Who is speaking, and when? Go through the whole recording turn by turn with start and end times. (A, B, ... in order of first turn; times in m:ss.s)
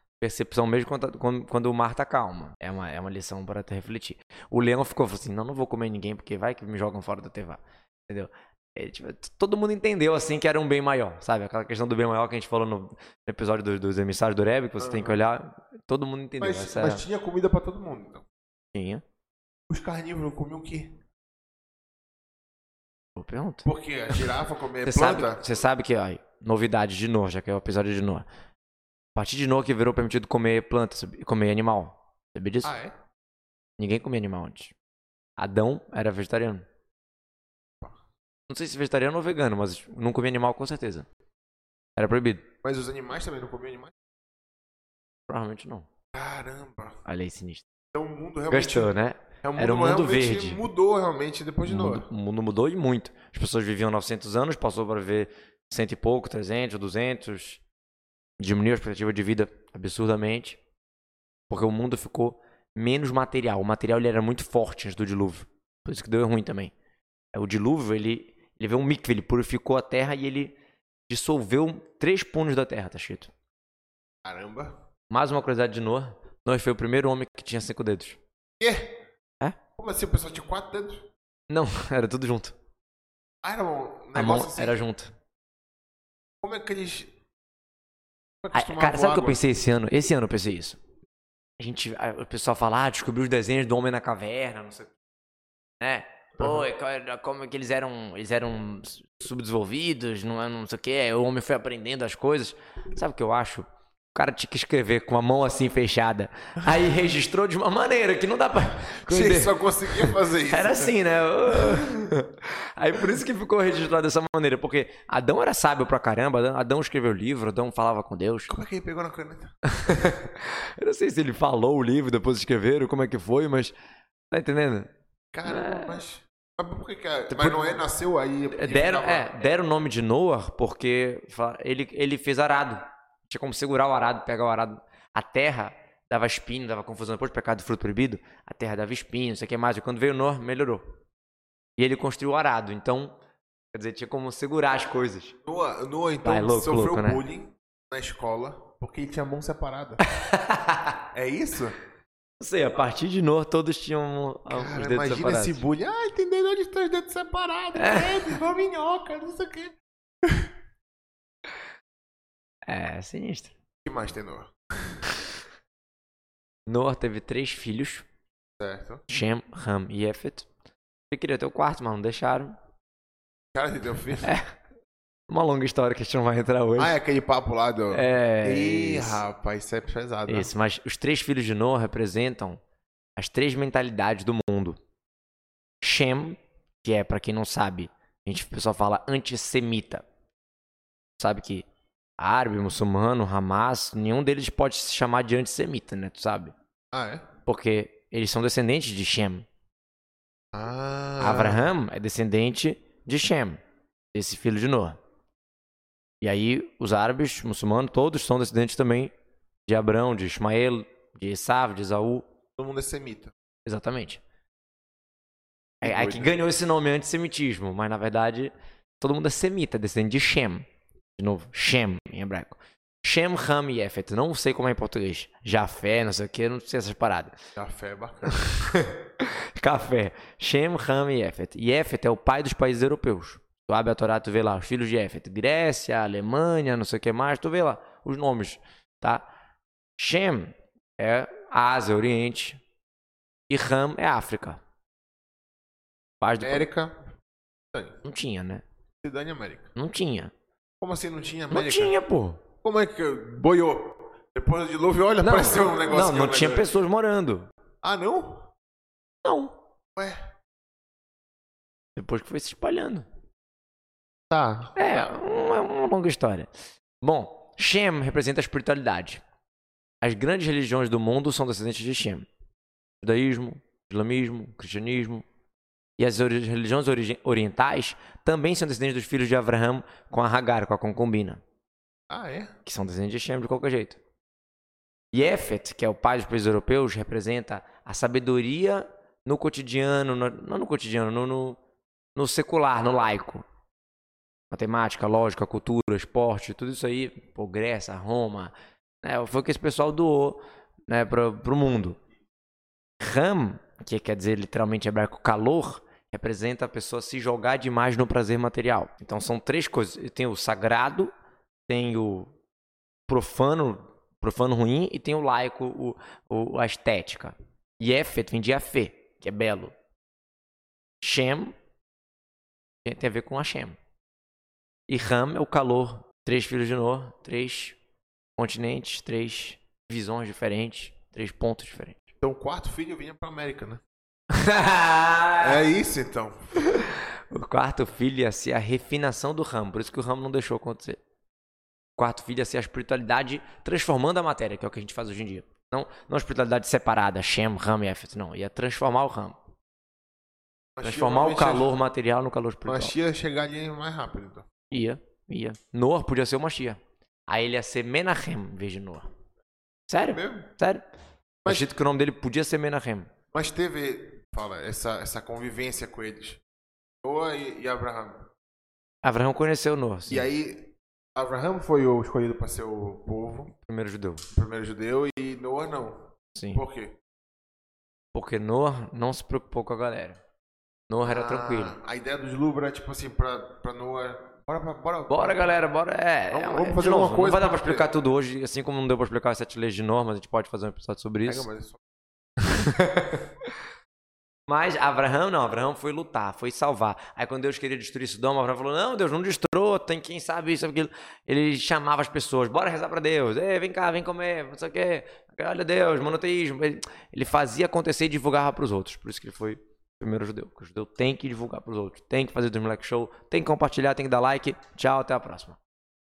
0:00.2-0:17.0 A
0:14.8-0:15.2 B
0:16.4-0:18.2 B
0:18.7-0:19.0 A
0:19.7-0:21.0 B
0:23.2-0:23.6 A
0:23.6-0:25.5 B
0:24.8-0:28.2 A
0:29.2-0:32.7 A
0:32.6-0:32.9 B
0:33.8-0:34.7 A
0:35.4-0:36.6 A
0:38.5-0:41.1 A
0:42.0-0:42.4 A
0:42.6-0:43.9 B
0:45.3-0:45.8 A
0:46.1-0:47.0 B
0:47.0-0:47.6 A
0:47.9-0:52.1 B
0:48.5-0:50.6 A
0:51.6-0:57.6 A
0:58.4-1:00.6 A
1:01.5-1:06.7 A
1:07.3-1:10.6 A
1:11.1-1:13.3 A
1:14.2-1:14.7 B
1:15.1-1:18.2 A
1:18.6-1:19.0 B
1:19.8-1:21.1 B
1:21.5-1:22.6 A
1:23.4-1:24.8 B
1:24.1-1:25.1 A
1:26.4-1:27.1 B
1:28.4-1:29.4 B
1:28.5-1:30.8 A
1:31.6-1:34.9 A
1:35.8-1:58.5 A
1:49.0-1:51.0 B
1:51.5-1:51.9 B
1:58.5-1:59.5 B
1:59.7-2:03.7 A
2:04.3-2:04.9 A
2:05.3-2:09.3 B
2:05.4-2:06.0 A
2:07.3-2:07.6 A
2:08.5-2:20.8 A
2:21.8-2:23.1 A
2:23.7-2:25.4 A
2:25.4-2:30.0 B
2:26.2-2:27.2 A
2:30.2-2:31.0 A
2:31.1-2:31.8 B
2:32.4-2:35.6 A
2:34.5-2:40.5 B
2:37.8-2:38.4 A
2:42.7-2:43.5 A
2:43.8-2:45.0 B
2:46.7-2:48.0 A
2:48.6-2:49.0 B
2:49.1-2:50.5 A
2:51.1-2:52.5 A
2:53.5-2:54.3 B
2:54.2-2:54.5 A
2:55.3-2:57.0 A
2:56.8-3:00.5 B
2:57.9-2:59.2 A
3:00.3-3:02.6 A
3:03.2-3:04.8 A
3:05.8-3:10.0 A
3:11.2-3:11.6 A
3:12.2-3:16.5 A
3:16.9-3:17.2 B
3:17.4-3:19.4 A
3:20.5-3:21.7 B
3:21.2-3:23.6 A
3:24.1-3:25.0 A
3:26.2-3:29.1 A
3:29.7-3:32.2 A
3:32.6-3:33.3 B
3:33.6-3:34.2 A
3:35.8-3:36.4 B
3:35.8-3:40.6 A
3:41.2-3:47.3 A
3:47.6-3:48.4 B
3:48.3-3:59.3 A
4:00.0-4:02.6 A
4:03.5-4:04.6 A
4:06.2-4:06.6 A
4:06.4-4:07.0 B
4:07.7-4:08.0 B
4:08.0-4:08.6 A
4:09.0-4:09.7 B
4:09.8-4:10.3 A
4:10.8-4:11.9 B
4:11.5-4:12.4 A
4:12.6-4:16.7 B
4:15.2-4:17.5 A
4:17.8-4:18.5 B
4:19.2-4:19.6 A
4:22.0-4:23.0 A
4:24.3-4:25.1 B
4:24.8-4:26.5 A
4:27.0-4:29.2 A
4:30.0-4:32.3 A
4:33.0-4:35.2 A
4:36.0-4:41.4 A
4:42.1-4:42.5 B
4:42.6-4:44.0 A
4:45.1-4:51.6 A
4:52.2-4:53.4 A
4:54.5-5:02.0 A
5:03.0-5:11.1 A
5:11.7-5:12.3 A
5:13.1-5:19.7 A
5:21.0-5:21.5 A
5:22.8-5:23.8 A
5:24.9-5:27.8 A
5:28.4-5:32.0 A
5:32.2-5:33.8 B
5:34.3-5:35.6 A
5:35.4-5:36.5 B
5:36.6-5:41.0 A
5:42.0-5:49.4 A
5:50.8-5:51.7 B
5:50.8-5:52.9 A
5:52.6-5:54.5 B
5:54.7-5:59.1 A
5:59.9-6:00.8 A
6:00.1-6:00.5 B
6:01.4-6:01.7 B
6:01.4-6:03.1 A
6:03.3-6:06.4 B
6:07.0-6:08.3 B
6:09.0-6:10.3 A
6:10.1-6:13.5 B
6:13.6-6:14.2 A
6:14.3-6:17.0 B
6:16.3-6:16.6 A
6:18.1-6:20.2 A
6:20.9-6:21.8 A
6:21.0-6:25.6 B
6:25.1-6:31.4 A
6:26.3-6:27.9 B
6:31.2-6:31.8 B
6:32.4-6:33.2 A
6:34.5-6:55.6 A